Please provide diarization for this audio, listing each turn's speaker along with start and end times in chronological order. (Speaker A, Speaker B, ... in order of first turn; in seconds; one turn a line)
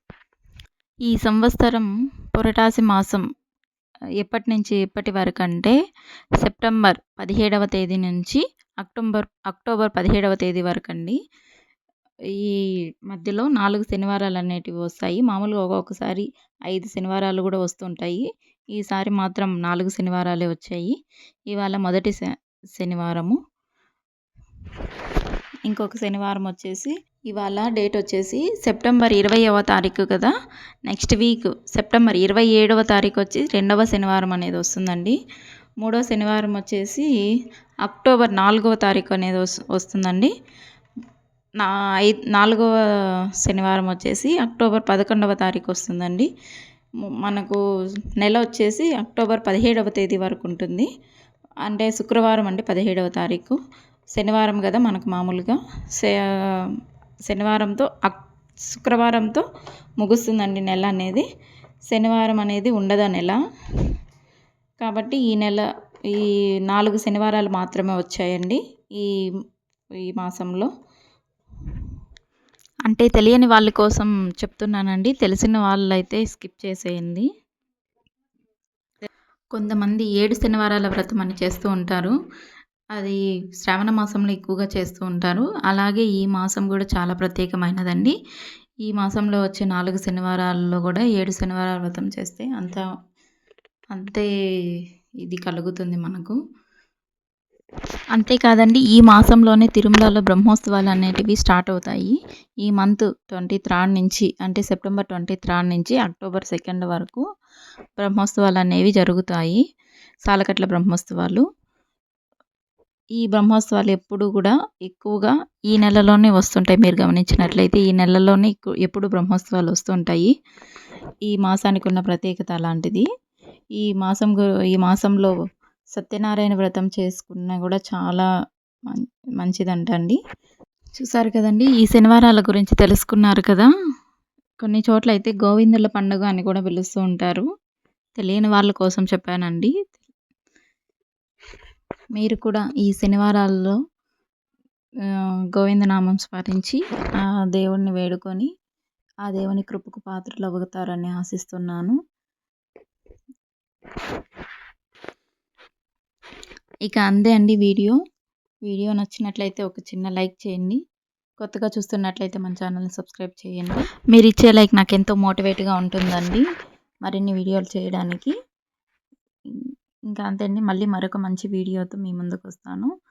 Speaker A: 1.1-3.2
Speaker A: 4.2-5.8
Speaker A: 6.4-11.2
Speaker A: 12.3-20.9
Speaker A: 21.5-23.4
Speaker A: 25.7-30.3
Speaker A: 30.9-35.2
Speaker A: 35.8-37.1
Speaker A: 37.8-40.3
Speaker A: 41.6-42.7
Speaker A: 43.4-46.3
Speaker A: 47.1-47.6
Speaker A: 48.2-50.9
Speaker A: 51.6-53.6
Speaker A: 54.1-56.7
Speaker A: 57.3-59.5
Speaker A: 60.0-61.2
Speaker A: 61.9-63.4
Speaker A: 64.8-69.1
Speaker A: 70.0-70.7
Speaker A: 72.9-77.3
Speaker A: 79.5-82.2
Speaker A: 83.0-88.1
Speaker A: 88.9-92.8
Speaker A: 93.9-94.3
Speaker A: 95.2-96.4
Speaker A: 98.1-107.2
Speaker A: 108.0-109.6
Speaker A: 110.2-111.5
Speaker A: 113.2-120.3
Speaker A: 121.3-123.1
Speaker A: 123.8-125.3
Speaker A: 125.9-128.3
Speaker A: 128.9-130.2
Speaker A: 131.0-133.7
Speaker A: 134.6-137.5
Speaker A: 138.2-139.9
Speaker A: 142.2-143.8
Speaker A: 145.1-148.5
Speaker A: 149.2-152.0
Speaker A: 156.8-158.0
Speaker A: 158.7-160.8
Speaker A: 161.4-166.4
Speaker A: 167.1-168.3
Speaker A: 169.5-172.9